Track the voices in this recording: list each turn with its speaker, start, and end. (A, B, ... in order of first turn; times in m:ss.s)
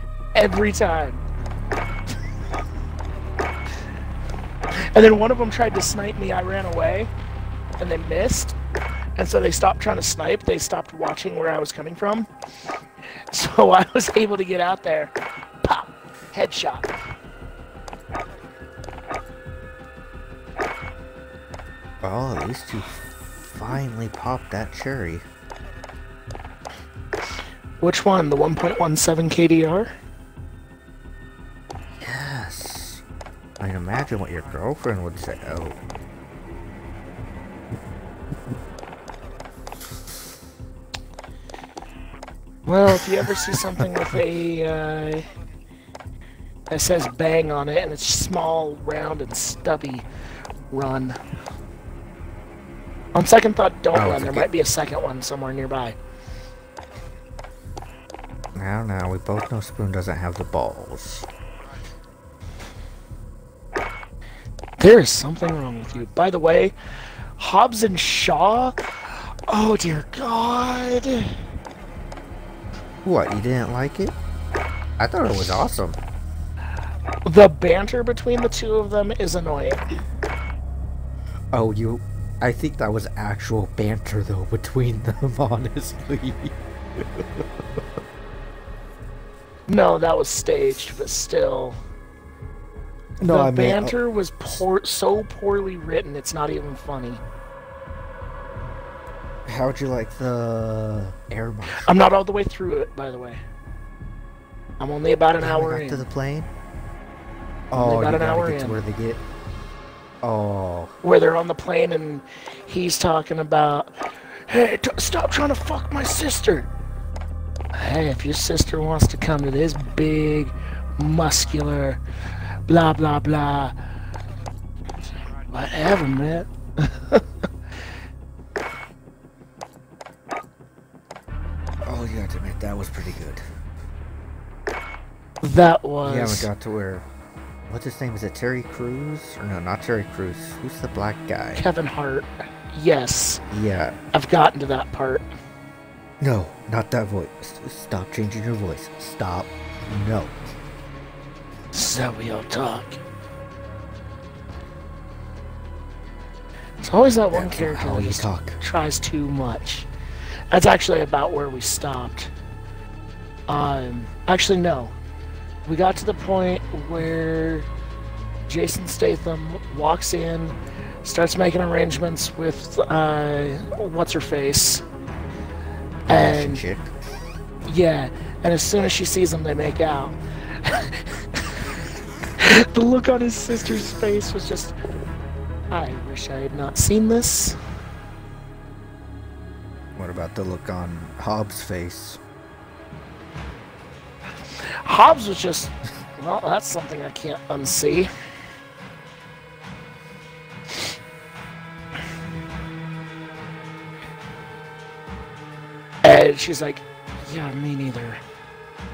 0:00.3-0:01.2 A
0:04.7-0:07.1 A
0:07.8-0:08.6 A
0:09.2-0:12.3 A
0:13.3-0:16.9 A
0:22.0-0:25.2 B
0:27.8-0:29.9 A
0:32.0-0:33.0 B
0:33.6-0:35.8 B
0:42.6-0:45.3 A
0:46.7-0:50.0 A
0:50.7-0:51.2 A
0:53.1-0:56.0 A
0:53.9-0:54.5 B
0:58.6-1:01.3 B
1:04.8-1:06.7 A
1:07.4-1:08.8 A
1:09.5-1:11.4 A
1:13.0-1:14.2 B
1:15.0-1:16.0 B
1:17.2-1:19.8 A
1:21.5-1:27.4 B
1:29.7-1:31.8 A
1:33.2-1:34.0 B
1:33.2-1:37.2 A
1:39.4-1:41.9 B
1:41.8-1:43.4 A
1:44.8-1:46.0 A
1:45.4-1:46.5 B
1:47.7-1:49.2 B
1:47.7-1:48.8 A
1:50.2-1:51.0 B
1:51.0-1:53.9 A
1:54.5-1:56.7 A
1:57.7-2:02.0 A
2:02.7-2:03.7 A
2:05.5-2:07.2 A
2:11.8-2:13.4 B
2:15.4-2:16.5 A
2:16.0-2:17.1 B
2:17.7-2:21.6 B
2:21.6-2:23.4 A
2:23.5-2:24.0 B
2:24.1-2:25.3 A
2:26.2-2:30.4 B
2:31.7-2:33.0 A
2:36.8-2:39.9 A
2:37.3-2:38.6 B
2:40.5-2:42.3 A
2:43.5-2:44.9 A
2:45.6-2:47.7 A
2:48.5-2:54.8 A
2:56.1-2:56.6 A
2:56.1-2:56.9 B
2:57.6-3:01.4 A
3:02.4-3:04.7 A
3:05.7-3:07.6 A
3:10.0-3:12.2 B
3:14.8-3:18.1 A
3:26.0-3:28.2 A